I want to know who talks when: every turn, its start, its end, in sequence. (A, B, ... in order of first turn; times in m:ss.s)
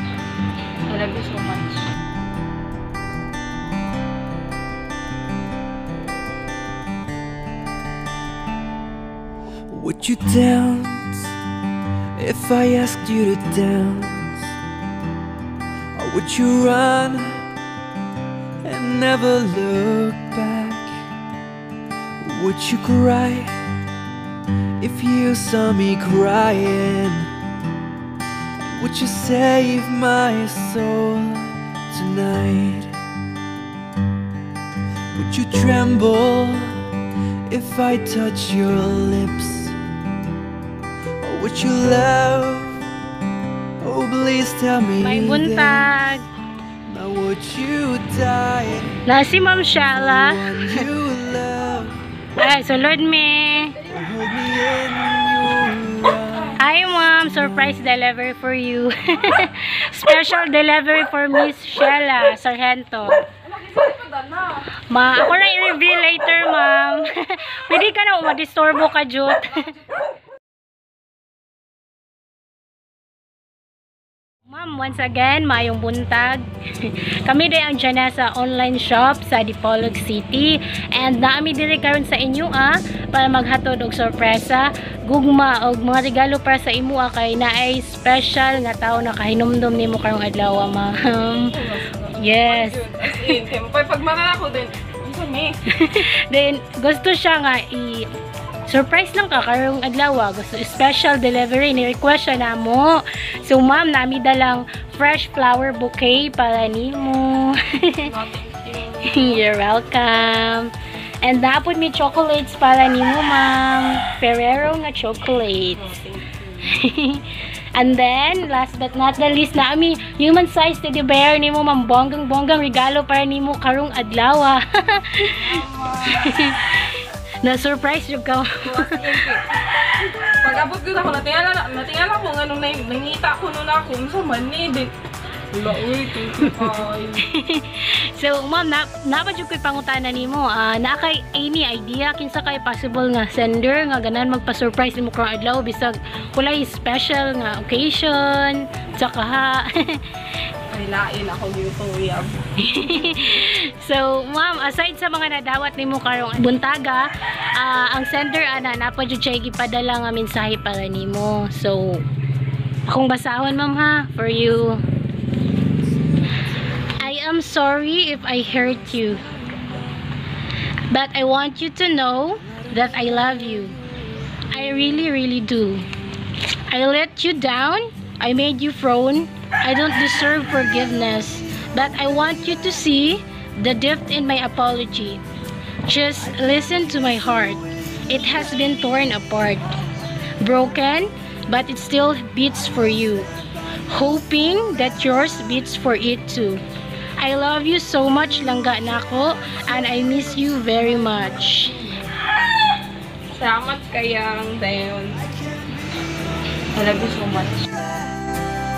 0:00.9-0:01.8 A
0:09.7-0:11.3 B
0:12.2-0:14.5 B
0:16.0-0:17.5 B
0:18.6-0:20.9 B
0:22.2-0:23.6 B
0:24.8-0:27.3 B
0:28.6-0:33.0 B
0:35.1-0:36.9 B
0:37.5-0:39.8 B
0:41.2-0:42.8 B
0:43.8-0:45.9 B
0:45.0-0:46.3 C
0:46.8-0:49.0 B
0:49.1-0:50.9 C
0:49.9-0:52.0 B
0:52.4-0:53.8 C
0:53.9-0:56.6 B
0:56.6-1:03.2 C
1:03.5-1:04.6 A
1:04.9-1:09.7 C
1:14.5-1:31.5 C
1:31.5-1:35.6 A
1:32.2-1:33.4 C
1:35.8-1:38.1 C
1:38.7-1:48.0 C
1:48.0-1:49.4 A
1:49.1-1:50.7 C
1:51.2-1:55.8 C
1:55.7-1:56.8 A
1:56.7-2:05.4 C
2:05.4-2:06.3 A
2:06.1-2:09.0 C
2:08.6-2:09.5 A
2:10.3-2:14.9 A
2:15.5-2:17.2 A
2:17.2-2:30.0 C
2:30.7-2:32.3 A
2:32.6-2:42.0 C
2:42.9-2:44.8 C
2:47.0-2:49.3 C
2:50.9-2:53.8 C
2:54.5-2:55.8 C
2:56.7-3:05.2 C
3:05.9-3:09.8 C
3:10.4-3:13.3 C
3:13.9-3:16.6 C
3:17.2-3:22.0 C
3:23.4-3:25.3 A
3:25.4-3:26.1 B
3:26.7-3:27.7 A